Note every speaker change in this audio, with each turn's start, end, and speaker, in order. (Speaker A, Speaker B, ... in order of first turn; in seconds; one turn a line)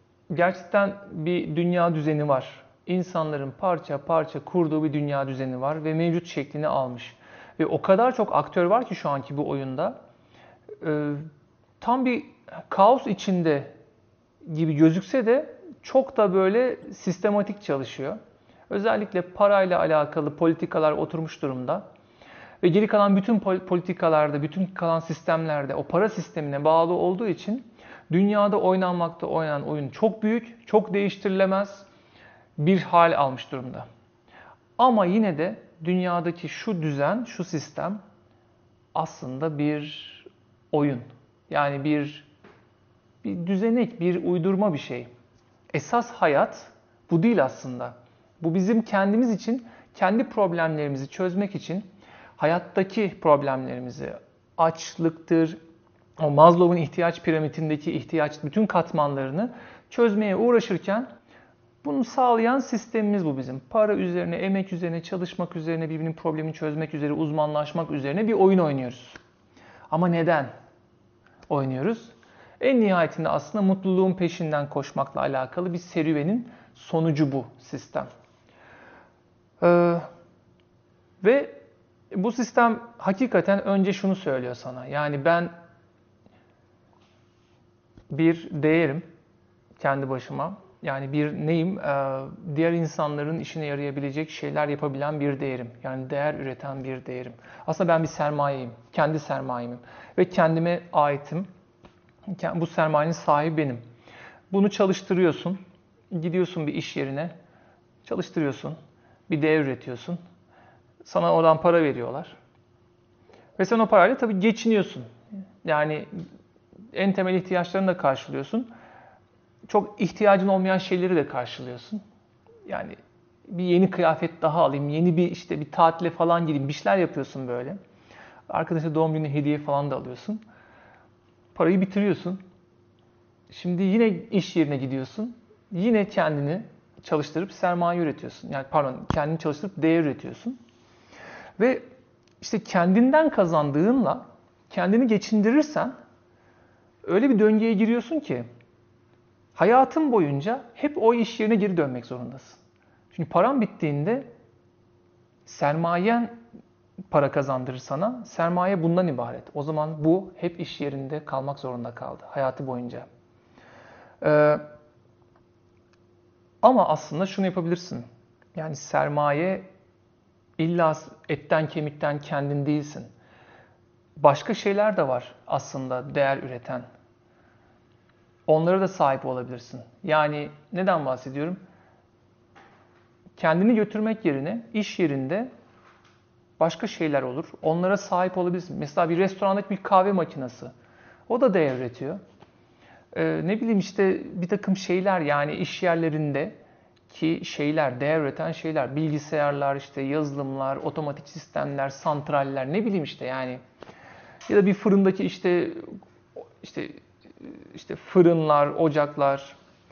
Speaker A: 0.3-10.0
Speaker A: 10.8-11.3
Speaker A: 11.8-13.7
Speaker A: 14.4-21.9
Speaker A: 22.6-31.9
Speaker A: 32.6-33.9
Speaker A: 34.8-38.0
Speaker A: 39.0-42.3
Speaker A: 43.2-45.1
Speaker A: 45.7-51.9
Speaker A: 52.4-55.6
Speaker A: 56.2-61.1
Speaker A: 61.8-69.2
Speaker A: 69.9-70.5
Speaker A: 71.5-78.1
Speaker A: 79.6-80.1
Speaker A: 81.2-85.5
Speaker A: 88.1-89.0
Speaker A: 89.8-101.5
Speaker A: 102.3-103.8
Speaker A: 104.5-105.6
Speaker A: 106.1-107.3
Speaker A: 108.0-108.8
Speaker A: 109.3-110.2
Speaker A: 111.0-112.4
Speaker A: 113.6-115.1
Speaker A: 115.6-116.1
Speaker A: 116.9-118.7
Speaker A: 119.7-122.0
Speaker A: 122.7-127.8
Speaker A: 128.5-130.4
Speaker A: 131.6-132.4
Speaker A: 133.5-140.6
Speaker A: 141.6-141.8
Speaker A: 142.4-145.9
Speaker A: 147.0-148.5
Speaker A: 149.6-152.6
Speaker A: 153.1-154.3
Speaker A: 155.5-156.4
Speaker A: 157.1-163.1
Speaker A: 164.2-164.7
Speaker A: 166.6-169.7
Speaker A: 170.6-173.1
Speaker A: 174.2-176.8
Speaker A: 178.5-181.6
Speaker A: 183.4-185.5
Speaker A: 186.6-190.7
Speaker A: 191.3-192.2
Speaker A: 193.1-196.6
Speaker A: 197.1-203.6
Speaker A: 204.5-205.9
Speaker A: 206.6-209.6